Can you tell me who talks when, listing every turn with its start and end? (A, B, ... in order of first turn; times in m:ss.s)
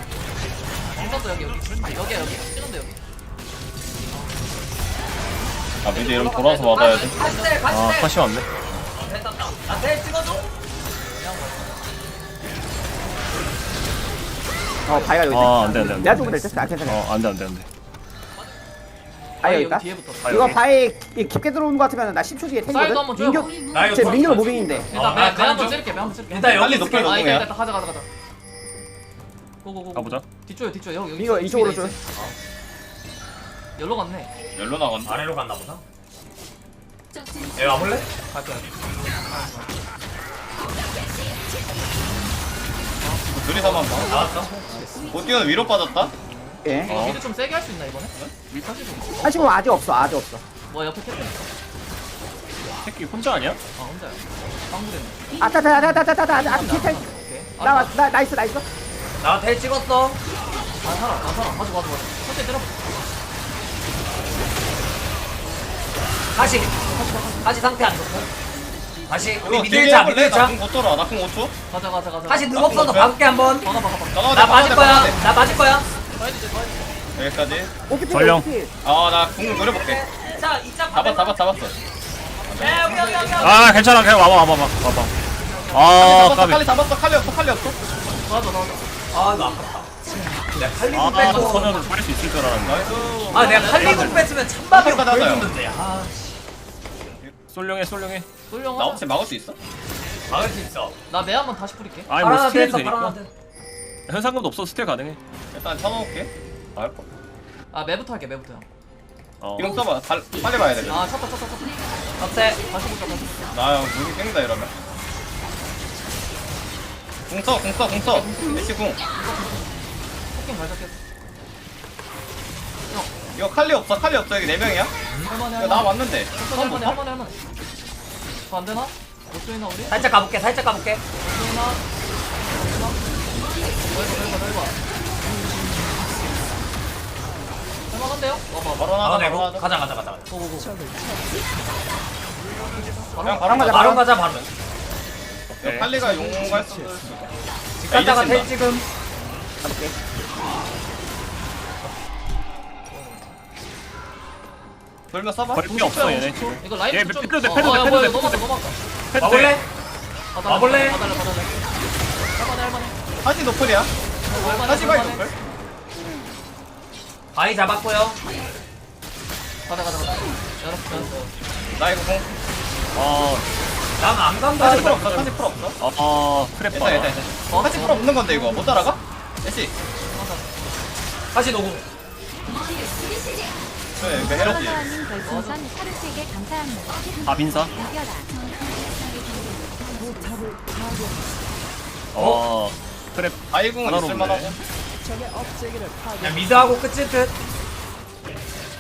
0:00.9-0:03.0 A
0:04.1-0:04.6 A
0:05.8-0:07.2 B
0:05.8-0:07.7 A
0:06.7-0:08.1 C
0:07.7-0:08.5 D
0:09.0-0:10.5 C
0:11.1-0:11.9 A
0:14.9-0:17.1 E
0:14.9-0:16.4 A
0:15.3-0:17.7 D
0:19.4-0:20.6 A
0:19.4-0:24.9 E
0:20.2-0:20.6 D
0:22.7-0:23.6 A
0:23.7-0:27.1 C
0:24.7-0:28.1 A
0:26.4-0:27.5 B
0:29.6-0:32.0 A
0:29.9-0:30.3 D
0:31.2-0:32.0 E
0:33.8-0:34.3 A
0:34.6-0:35.3 B
0:35.1-0:35.8 C
0:37.6-0:38.1 C
0:38.3-0:39.8 A
0:43.0-0:45.4 A
0:43.3-0:44.4 B
0:44.1-0:44.5 C
0:45.1-0:46.1 B
0:46.1-0:50.1 A
0:46.6-0:47.0 E
0:46.9-0:47.2 D
0:49.2-0:50.4 E
0:50.7-0:51.5 A
0:52.8-0:53.6 D
0:53.8-0:57.9 A
0:55.4-0:58.7 E
0:59.2-1:00.2 C
1:00.8-1:03.0 A
1:06.3-1:06.7 C
1:06.4-1:07.6 A
1:07.4-1:08.3 C
1:09.1-1:10.6 C
1:09.4-1:11.5 B
1:11.7-1:15.1 A
1:12.3-1:13.7 C
1:12.6-1:13.2 B
1:14.1-1:15.2 B
1:14.3-1:15.9 C
1:16.2-1:17.0 A
1:17.2-1:17.7 B
1:17.9-1:18.7 E
1:18.1-1:18.5 D
1:18.8-1:20.0 B
1:19.6-1:21.4 C
1:20.9-1:21.8 B
1:22.2-1:23.9 A
1:22.5-1:23.0 B
1:22.6-1:23.8 C
1:23.4-1:25.1 D
1:25.4-1:26.0 A
1:25.7-1:26.6 D
1:26.0-1:27.8 B
1:27.9-1:29.0 A
1:29.1-1:29.9 C
1:30.6-1:31.8 C
1:30.9-1:33.2 D
1:31.2-1:32.0 A
1:32.6-1:35.5 B
1:32.9-1:34.3 A
1:33.3-1:36.4 C
1:37.5-1:38.3 D
1:38.5-1:39.1 A
1:38.8-1:39.6 B
1:40.3-1:41.0 C
1:41.1-1:42.1 A
1:42.1-1:43.2 D
1:42.2-1:43.3 C
1:44.1-1:45.2 D
1:45.5-1:47.1 B
1:47.7-1:48.7 A
1:49.4-1:49.8 D
1:49.6-1:51.1 B
1:50.9-1:53.6 A
1:52.2-1:52.6 C
1:53.5-1:54.7 B
1:57.3-1:59.0 B
1:57.9-2:01.0 A
2:03.4-2:07.0 B
2:05.1-2:05.4 C
2:05.2-2:07.4 A
2:08.5-2:10.1 A
2:09.9-2:11.0 C
2:11.2-2:11.8 A
2:12.4-2:14.8 A
2:17.9-2:19.0 A
2:18.8-2:19.7 B
2:19.0-2:20.2 C
2:20.3-2:20.8 A
2:23.1-2:24.0 A
2:23.2-2:24.2 B
2:23.5-2:23.9 E
2:23.6-2:24.5 C
2:25.5-2:28.6 B
2:25.6-2:25.9 D
2:27.8-2:28.8 C
2:29.6-2:29.9 E
2:32.9-2:33.3 A
2:35.1-2:36.5 B
2:35.5-2:38.4 D
2:36.1-2:38.8 A
2:39.1-2:39.6 D
2:39.2-2:39.6 C
2:40.3-2:41.8 A
2:40.4-2:41.0 C
2:42.3-2:43.2 A
2:43.2-2:45.3 B
2:44.2-2:45.4 A
2:47.3-2:48.2 C
2:49.7-2:51.3 A
2:51.8-2:52.3 B
2:52.9-2:53.5 D
2:54.0-2:55.0 C
2:54.6-2:55.8 B
2:54.6-2:57.2 D
2:56.7-2:59.7 B
2:57.5-2:58.9 A
3:00.1-3:00.5 A
3:01.3-3:01.9 C
3:04.0-3:04.9 B
3:04.0-3:08.4 F
3:05.2-3:05.6 A
3:07.2-3:07.7 D
3:12.1-3:14.6 D
3:12.2-3:12.4 C
3:13.5-3:14.6 B
3:16.2-3:17.3 C